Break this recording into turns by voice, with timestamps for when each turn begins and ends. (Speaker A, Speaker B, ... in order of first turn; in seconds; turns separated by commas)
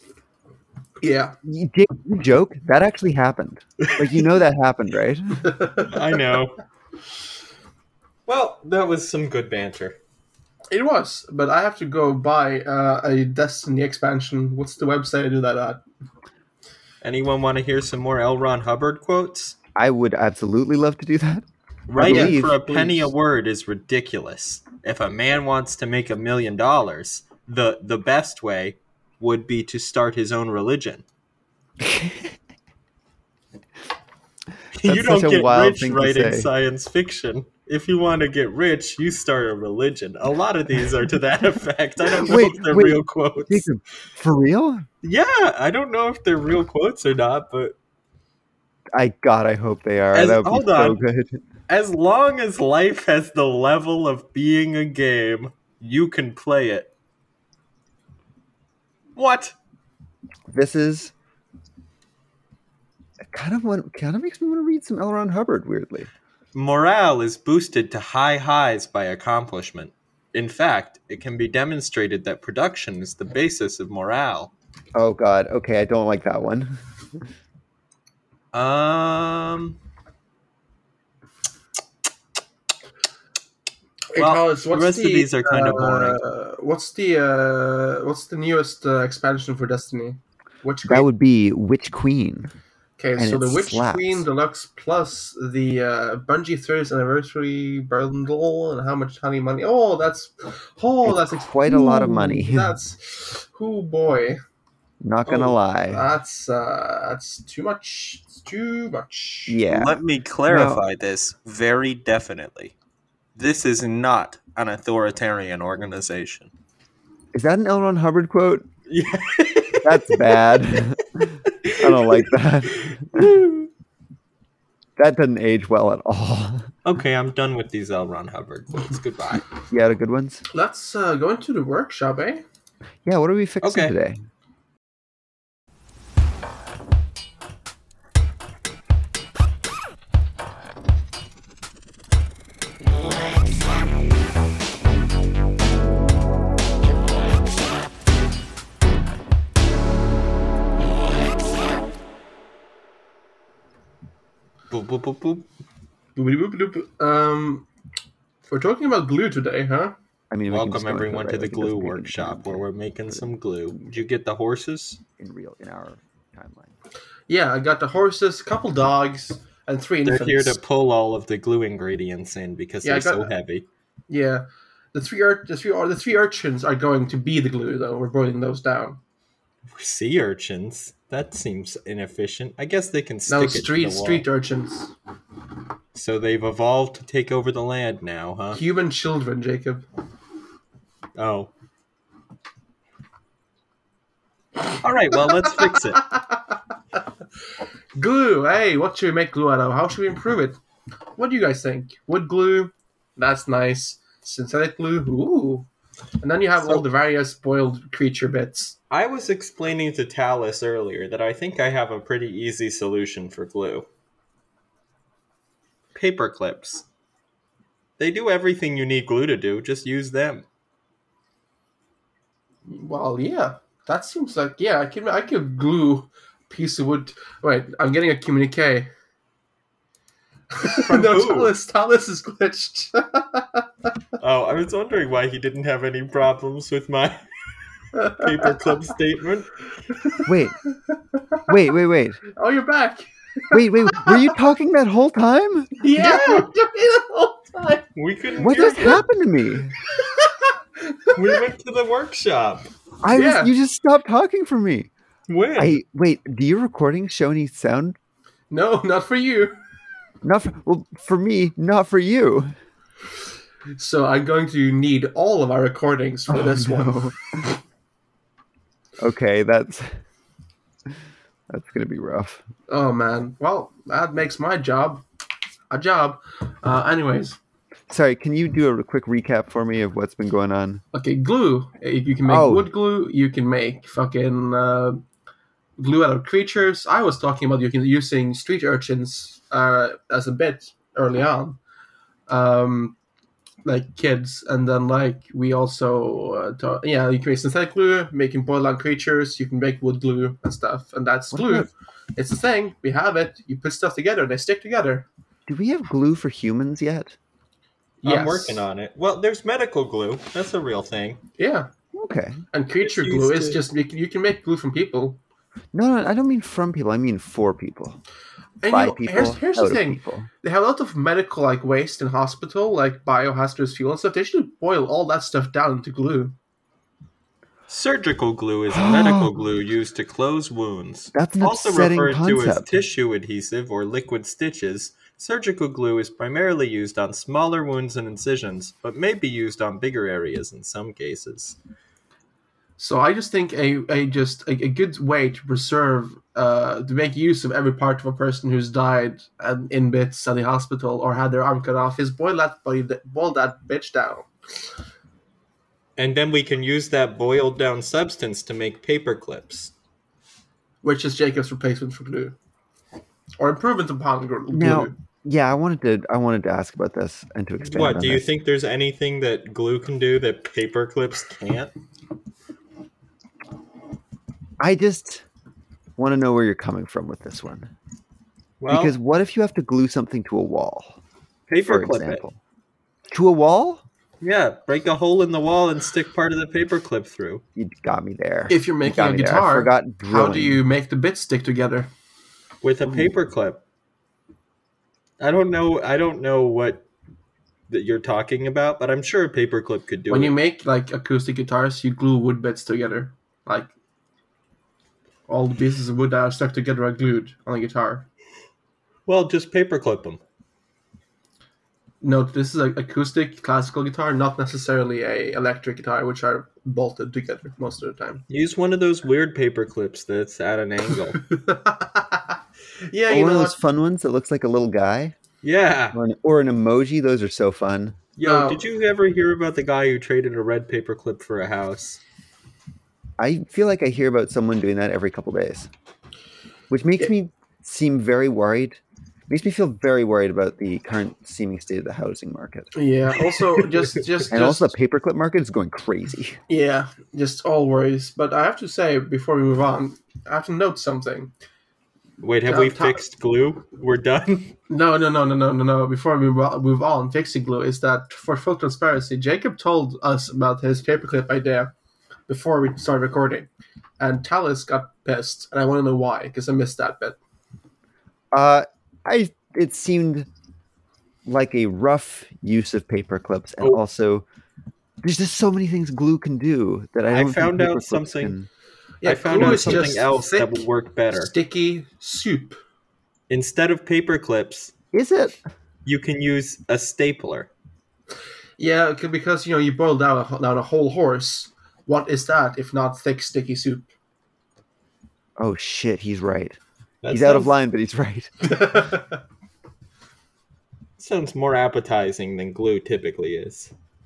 Speaker A: 1.0-1.4, Speaker B: 1.4-5.6, Speaker C: 3.8-4.3, Speaker A: 5.5-5.9, Speaker C: 5.8-6.6, Speaker C: 8.3-10.0, Speaker A: 10.7-15.8, Speaker C: 17.0-19.6, Speaker B: 19.8-23.1, Speaker C: 21.9-31.0, Speaker A: 22.0-22.3, Speaker B: 31.8-32.3, Speaker C: 34.8-43.7, Speaker B: 34.9-36.5, Speaker B: 42.2-44.9, Speaker C: 45.0-47.8, Speaker B: 48.9-51.4, Speaker C: 50.1-51.0, Speaker C: 51.7-56.9, Speaker C: 59.2-59.5, Speaker B: 60.5-61.1, Speaker B: 63.3-66.1, Speaker C: 66.5-74.5, Speaker B: 75.0-77.2, Speaker C: 78.5-79.8, Speaker A: 84.1-91.1, Speaker C: 84.2-86.2, Speaker B: 90.9-92.5, Speaker A: 93.0-104.4, Speaker B: 93.2-94.2, Speaker B: 101.0-102.8, Speaker B: 105.0-106.0, Speaker A: 105.3-109.6, Speaker B: 109.5-110.0, Speaker C: 109.7-112.8, Speaker B: 110.5-110.8, Speaker C: 113.4-116.5, Speaker B: 117.3-118.7, Speaker C: 118.9-120.6, Speaker B: 119.8-123.4, Speaker C: 121.5-123.7, Speaker B: 125.0-126.7, Speaker C: 126.8-129.5, Speaker B: 129.7-130.4, Speaker A: 130.5-132.4, Speaker B: 133.1-134.2, Speaker C: 133.6-133.9, Speaker C: 154.7-155.5, Speaker A: 156.2-157.7, Speaker A: 158.5-159.9, Speaker B: 160.3-163.9, Speaker C: 160.5-165.0, Speaker B: 165.2-166.8, Speaker A: 167.3-170.6, Speaker C: 170.1-173.7, Speaker A: 172.8-173.3, Speaker A: 174.1-179.0, Speaker C: 179.7-184.3, Speaker A: 183.3-184.9, Speaker C: 185.9-188.6, Speaker A: 188.5-189.8, Speaker C: 191.2-191.5, Speaker C: 194.8-196.1, Speaker A: 198.0-200.6, Speaker A: 201.2-205.7, Speaker A: 206.2-208.8, Speaker C: 206.6-206.8, Speaker C: 208.9-213.9, Speaker C: 215.9-216.8, Speaker C: 218.0-220.4, Speaker A: 222.7-228.9, Speaker A: 230.6-233.7, Speaker C: 230.7-231.5, Speaker C: 234.2-237.2, Speaker A: 237.9-238.5, Speaker C: 238.1-239.5, Speaker A: 240.0-240.3, Speaker B: 240.3-240.6, Speaker A: 240.9-241.4, Speaker B: 241.5-242.2, Speaker A: 242.4-244.3, Speaker B: 243.5-245.8, Speaker A: 245.8-247.9, Speaker C: 246.0-246.4, Speaker C: 248.0-249.0, Speaker B: 248.4-249.7, Speaker A: 250.0-251.4, Speaker C: 251.2-252.7, Speaker B: 253.0-254.9, Speaker A: 253.1-253.5, Speaker C: 255.3-255.8, Speaker B: 255.6-258.0, Speaker A: 258.5-259.6, Speaker B: 260.2-262.5, Speaker A: 263.8-267.5, Speaker B: 266.3-267.5, Speaker B: 269.0-270.0, Speaker B: 271.5-272.4, Speaker A: 272.7-275.0, Speaker A: 275.7-277.4, Speaker B: 277.9-280.8, Speaker A: 280.9-285.0, Speaker B: 282.3-282.7, Speaker A: 285.8-291.6, Speaker A: 292.3-293.0, Speaker A: 293.6-305.1, Speaker B: 301.3-301.7, Speaker B: 305.5-307.2, Speaker A: 308.0-308.6, Speaker C: 308.0-311.2, Speaker A: 311.4-311.7, Speaker B: 311.9-312.4, Speaker A: 312.5-315.2, Speaker C: 312.8-313.6, Speaker B: 315.7-318.0, Speaker A: 318.6-326.4, Speaker B: 318.7-320.3, Speaker C: 327.7-341.6, Speaker B: 328.7-329.4, Speaker B: 331.1-332.8, Speaker A: 342.8-354.3, Speaker C: 356.0-359.7, Speaker A: 360.8-362.4, Speaker A: 363.4-364.9, Speaker B: 364.5-368.3, Speaker C: 367.6-371.7, Speaker B: 374.6-375.2, Speaker B: 376.0-377.7, Speaker C: 378.6-378.9, Speaker B: 378.7-381.0, Speaker C: 381.5-382.2, Speaker B: 381.7-382.4, Speaker B: 383.1-383.8, Speaker C: 384.2-387.4, Speaker B: 387.6-390.6, Speaker A: 388.5-391.9, Speaker C: 392.6-393.6, Speaker C: 395.2-396.9, Speaker C: 397.7-400.4, Speaker A: 400.1-403.7, Speaker A: 405.3-408.1, Speaker C: 409.1-410.2, Speaker A: 412.0-418.2, Speaker C: 418.3-421.2, Speaker A: 421.1-422.4, Speaker A: 422.9-423.6, Speaker B: 423.1-425.1, Speaker C: 425.4-426.0, Speaker B: 425.9-428.0, Speaker C: 428.2-432.0, Speaker A: 428.2-428.6, Speaker B: 433.2-435.7, Speaker B: 436.7-442.7, Speaker A: 442.7-444.8, Speaker B: 444.3-446.4, Speaker A: 446.5-451.3, Speaker C: 452.2-454.6, Speaker A: 452.5-453.0, Speaker A: 454.7-461.7, Speaker A: 462.3-463.5, Speaker A: 464.0-467.2, Speaker B: 468.3-470.3, Speaker B: 471.3-474.3, Speaker B: 475.0-478.5, Speaker C: 477.1-478.4, Speaker A: 479.0-482.6, Speaker C: 479.1-481.3, Speaker B: 479.4-479.9, Speaker C: 483.3-484.7, Speaker B: 484.9-485.4, Speaker C: 485.9-487.5, Speaker A: 488.6-493.9, Speaker B: 495.4-496.6, Speaker C: 497.0-497.5, Speaker B: 497.1-498.6, Speaker A: 498.4-499.2, Speaker C: 501.0-503.7